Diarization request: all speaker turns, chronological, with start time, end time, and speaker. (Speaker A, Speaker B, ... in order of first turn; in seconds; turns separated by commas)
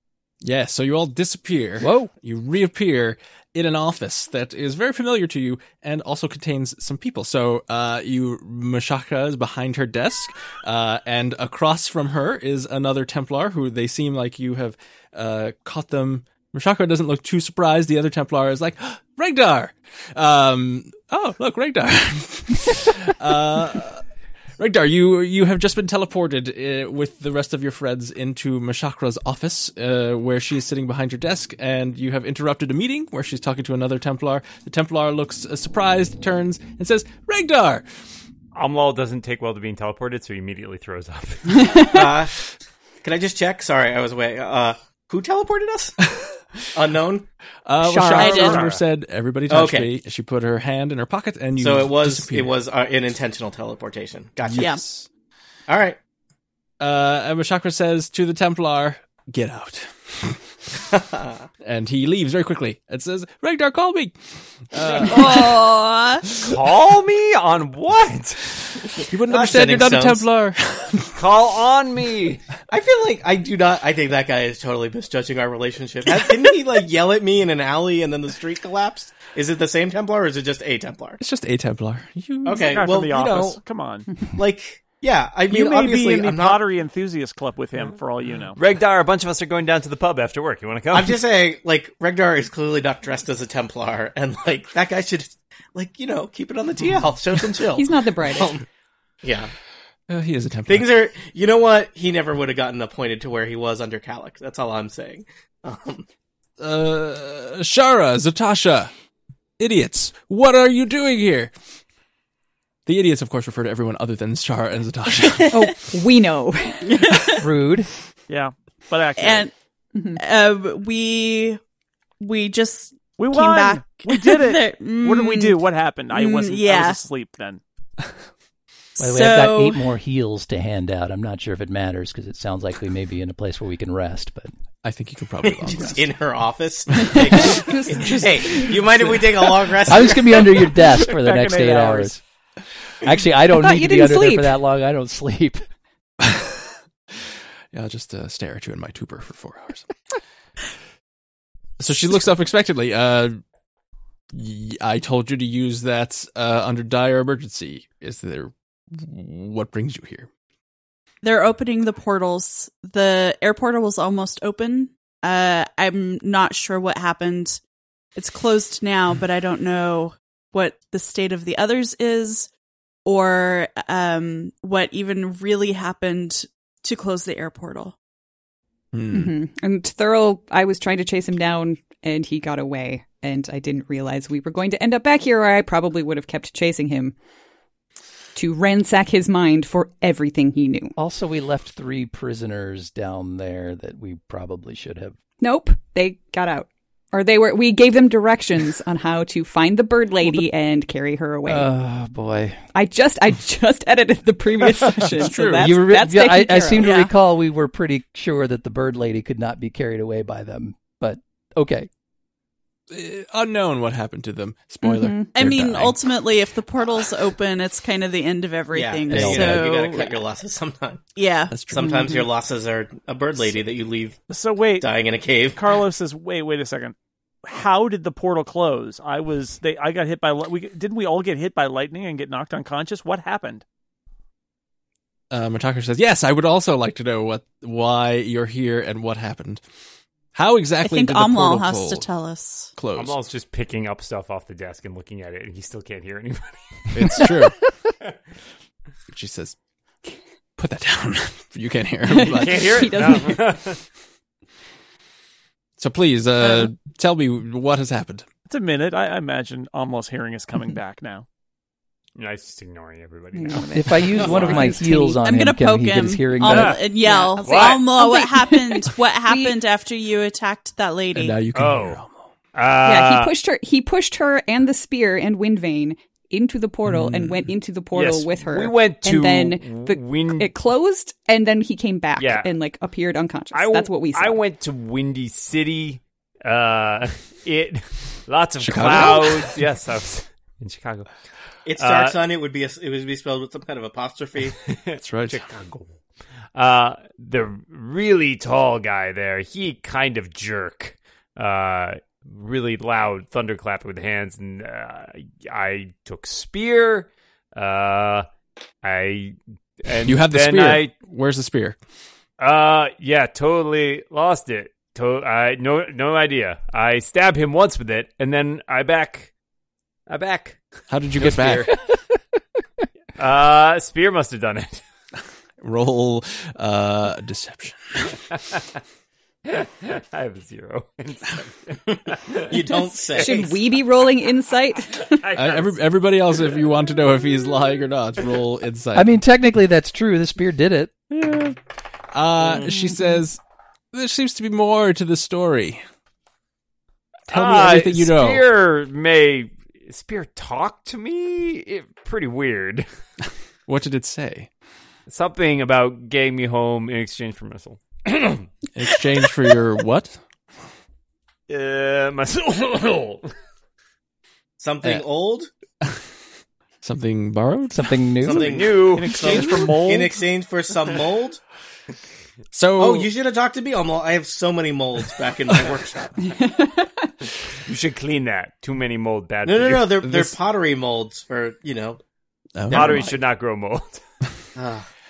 Speaker A: 0.4-24.0, Speaker B: 1.8-2.1, Speaker A: 24.6-37.8, Speaker C: 38.5-41.8, Speaker D: 41.6-42.0, Speaker E: 41.8-42.3, Speaker E: 43.0-45.9, Speaker A: 46.1-46.8, Speaker E: 46.7-47.3, Speaker A: 47.6-52.5, Speaker D: 47.8-48.6, Speaker F: 48.1-48.7, Speaker C: 48.4-48.7, Speaker E: 49.5-49.9, Speaker E: 51.6-54.7, Speaker A: 54.4-55.1, Speaker F: 54.5-54.8, Speaker E: 55.7-56.0, Speaker A: 56.8-60.4, Speaker A: 61.6-65.6, Speaker F: 64.9-66.2, Speaker A: 66.3-66.6, Speaker C: 66.4-68.6, Speaker A: 69.1-71.2, Speaker E: 69.3-70.2, Speaker C: 71.1-72.4, Speaker E: 72.7-81.2, Speaker A: 81.2-82.8, Speaker E: 82.4-83.6, Speaker G: 82.5-84.1, Speaker E: 84.3-86.6, Speaker G: 85.5-88.6, Speaker C: 88.5-91.2, Speaker E: 90.9-98.6, Speaker D: 97.7-98.6, Speaker E: 99.2-99.5, Speaker A: 100.1-100.9, Speaker E: 100.7-106.0, Speaker A: 106.6-108.9, Speaker A: 109.6-111.5, Speaker A: 112.8-115.7, Speaker D: 115.5-117.0, Speaker F: 116.9-117.4, Speaker B: 117.3-117.9, Speaker G: 118.3-119.5, Speaker F: 119.2-119.5, Speaker D: 119.9-120.2, Speaker F: 120.2-121.6, Speaker F: 122.2-127.0, Speaker G: 123.2-127.6, Speaker F: 129.0-129.9, Speaker B: 129.0-134.5, Speaker A: 134.8-136.1, Speaker E: 135.4-140.5, Speaker D: 137.0-138.7, Speaker A: 137.1-137.6, Speaker B: 139.9-142.2, Speaker G: 140.7-142.1, Speaker B: 143.0-145.6, Speaker D: 143.5-144.6, Speaker A: 146.2-149.9, Speaker A: 151.8-153.4, Speaker A: 154.3-160.3, Speaker F: 161.2-167.6, Speaker F: 168.1-172.5, Speaker F: 173.0-177.9, Speaker A: 178.9-179.3, Speaker D: 179.1-187.1, Speaker D: 188.3-190.9, Speaker B: 191.0-195.2, Speaker D: 195.4-201.7, Speaker B: 200.2-200.5, Speaker B: 201.4-202.6, Speaker D: 202.7-206.8, Speaker A: 205.2-205.8, Speaker B: 205.6-211.9, Speaker F: 206.8-207.1, Speaker A: 212.9-216.2, Speaker D: 214.8-215.3, Speaker F: 215.3-220.2, Speaker E: 218.7-221.0, Speaker B: 219.1-219.6, Speaker F: 221.2-221.7, Speaker A: 221.5-222.0, Speaker E: 221.7-224.2, Speaker D: 221.8-222.2, Speaker G: 224.3-224.9, Speaker E: 224.8-225.6, Speaker G: 225.5-233.6, Speaker A: 235.3-239.6, Speaker A: 240.3-242.1, Speaker F: 240.8-242.7, Speaker A: 242.8-243.2, Speaker C: 242.9-246.8, Speaker A: 246.9-247.6, Speaker A: 249.1-249.6, Speaker A: 250.6-253.1, Speaker D: 252.1-253.6, Speaker C: 252.2-253.8, Speaker A: 255.8-258.3, Speaker G: 258.5-261.2, Speaker C: 262.1-264.7, Speaker D: 263.3-265.2, Speaker B: 263.7-266.8, Speaker F: 265.2-271.4, Speaker C: 266.4-266.8, Speaker D: 267.0-269.6, Speaker C: 267.4-267.8, Speaker A: 271.1-272.2, Speaker C: 271.5-272.0, Speaker C: 272.5-273.3, Speaker D: 272.8-284.4, Speaker A: 276.8-277.4, Speaker C: 277.9-280.5, Speaker C: 282.2-282.5, Speaker C: 283.5-291.1, Speaker A: 288.6-289.6, Speaker E: 291.6-294.6, Speaker C: 291.8-292.2, Speaker C: 294.8-295.9, Speaker A: 295.0-295.4, Speaker C: 296.5-308.3, Speaker C: 308.8-310.9, Speaker A: 310.0-311.8, Speaker C: 312.4-319.3, Speaker C: 320.1-320.6, Speaker A: 320.9-321.7, Speaker C: 321.2-321.8, Speaker C: 323.2-324.8, Speaker A: 325.6-328.2, Speaker C: 329.4-333.3, Speaker E: 332.3-333.6, Speaker D: 333.2-335.2, Speaker C: 335.1-335.8, Speaker A: 335.3-339.1, Speaker B: 338.9-341.0, Speaker A: 341.1-341.5, Speaker A: 342.1-343.4, Speaker A: 343.9-345.8, Speaker A: 347.3-348.4, Speaker C: 347.3-352.9, Speaker A: 353.7-354.5, Speaker C: 355.1-358.4, Speaker A: 358.7-360.2, Speaker C: 361.5-363.3, Speaker E: 364.6-365.5, Speaker A: 366.8-368.0, Speaker B: 367.7-368.5, Speaker E: 368.2-371.4, Speaker C: 368.4-369.4, Speaker G: 368.8-370.2, Speaker A: 372.5-373.1, Speaker E: 372.8-376.2, Speaker D: 376.3-376.9, Speaker C: 377.6-379.9, Speaker E: 379.4-382.0, Speaker A: 380.0-380.3, Speaker A: 382.6-383.1, Speaker E: 382.7-383.2, Speaker C: 382.7-384.0, Speaker E: 384.6-384.9